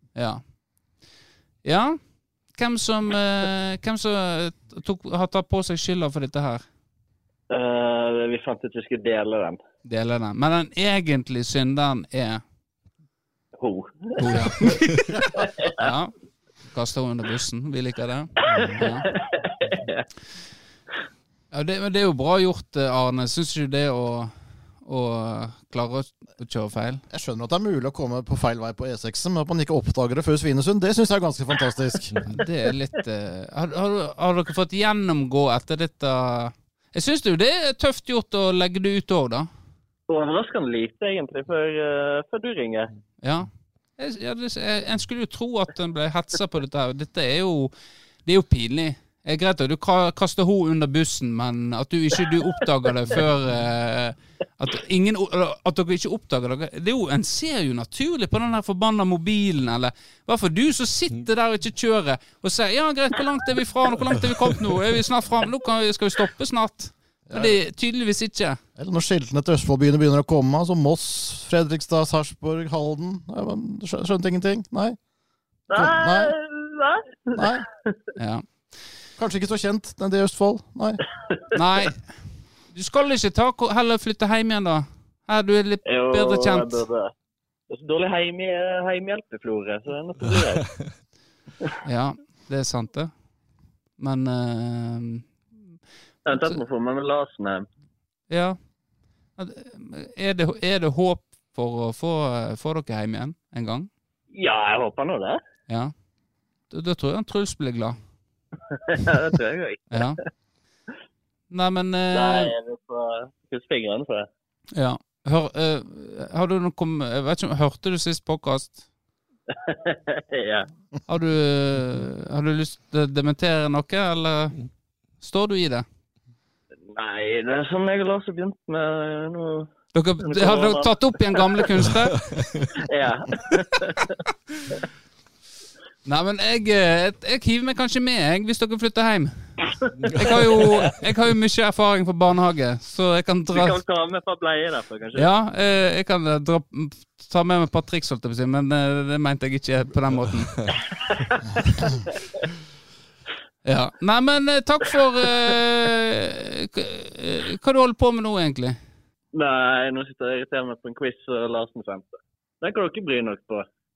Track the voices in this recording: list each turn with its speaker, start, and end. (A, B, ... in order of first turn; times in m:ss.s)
0:00.1-0:00.4 A
0:01.6-0:06.6 A
0:07.5-0:09.6 B
0:09.8-0:12.4 A
0:13.6-0:14.6 B
0:14.2-0:19.1 A
0:15.4-0:15.8 B
0:18.5-0:18.8 C
0:18.6-0:20.1 B
0:21.5-0:27.0 A
0:27.1-0:32.3 C
0:32.3-0:39.5 A
0:40.1-0:42.9 B
0:43.2-1:08.6 A
1:07.3-1:07.6 C
1:08.8-1:15.0 C
1:15.7-1:17.5 B
1:15.7-1:16.4 C
1:17.3-1:17.6 C
1:18.2-1:18.8 A
1:19.2-1:21.0 C
1:21.5-1:26.8 A
1:25.8-1:27.1 B
1:27.7-1:30.8 B
1:31.8-1:33.2 A
1:33.9-1:35.6 A
1:36.2-1:37.7 B
1:36.3-1:36.6 A
1:38.3-1:38.7 A
1:39.4-1:43.9 A
1:44.3-1:45.4 B
1:45.7-1:45.9 A
1:46.7-1:48.0 A
1:48.7-1:50.1 B
1:49.9-1:50.2 A
1:51.5-1:52.5 A
1:52.1-1:54.3 B
1:54.7-1:58.8 A
1:59.5-2:00.7 B
2:01.1-2:05.8 A
2:06.9-2:09.7 B
2:09.9-2:12.3 A
2:10.2-2:11.9 B
2:12.8-2:14.2 B
2:16.0-2:23.8 A
2:23.5-2:25.3 B
2:25.1-2:30.8 A
2:33.6-2:38.8 A
2:39.3-2:43.6 B